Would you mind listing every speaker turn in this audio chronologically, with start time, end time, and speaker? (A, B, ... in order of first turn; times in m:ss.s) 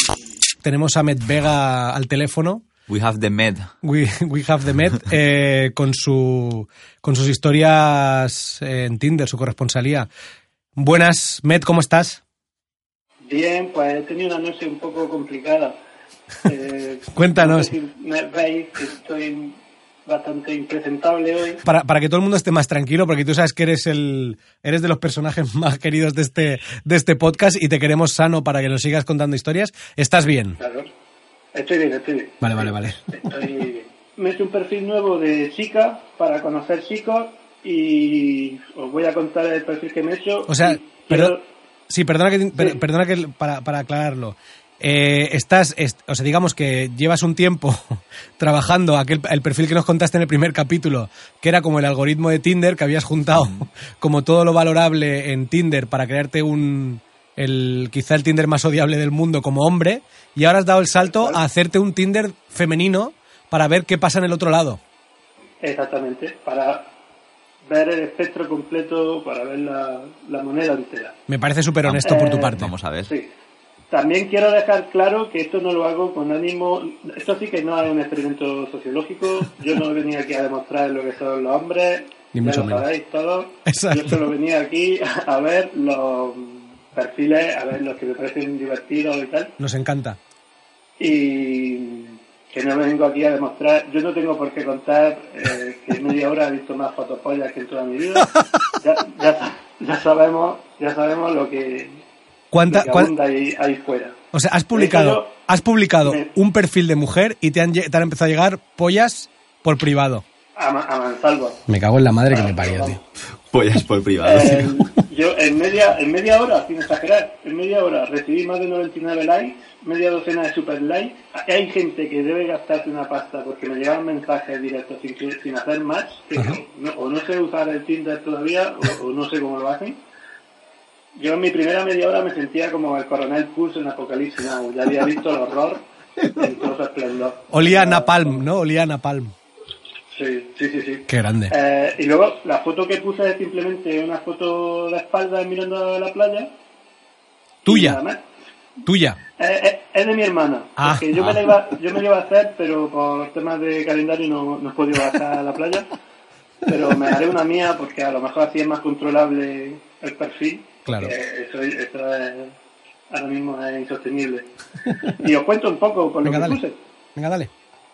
0:00.6-0:02.6 A
0:02.9-0:03.7 B
0:03.8-0:10.1 A
0:10.8-0:12.2 A
0:13.2-0:15.8 C
0:16.4-0:21.6 C
0:17.1-0:17.7 A
0:21.6-0:30.6 A
0:30.6-0:30.9 C
0:31.5-0:41.4 C
0:32.4-0:33.3 A
0:40.5-0:41.4 A
0:41.9-1:04.8 A
0:53.3-0:53.6 B
1:01.0-1:01.4 C
1:05.6-1:06.9 C
1:07.6-1:11.2 C
1:11.3-1:12.7 A
1:11.8-1:13.1 B
1:12.0-1:12.6 C
1:13.9-1:29.5 C
1:22.3-1:22.9 A
1:23.6-1:24.3 A
1:29.6-1:30.2 A
1:31.0-1:42.0 C
1:42.5-1:43.1 A
1:42.7-1:44.2 C
1:44.3-1:50.2 A
1:44.7-1:45.3 C
1:46.0-1:46.3 C
1:50.6-1:51.6 C
1:51.7-1:53.0 A
1:52.3-1:53.0 C
1:53.5-1:54.8 B
1:54.2-2:10.0 C
2:06.3-2:06.6 A
2:11.1-2:18.4 C
2:17.5-2:19.3 A
2:20.1-2:26.5 C
2:21.1-2:21.5 A
2:27.6-2:28.2 C
2:27.6-2:28.0 A
2:28.8-2:29.2 A
2:29.4-2:35.9 C
2:30.8-2:31.4 A
2:36.6-2:42.5 C
2:40.8-2:41.1 A
2:43.1-2:46.8 C
2:46.2-2:46.6 A
2:47.2-2:47.5 A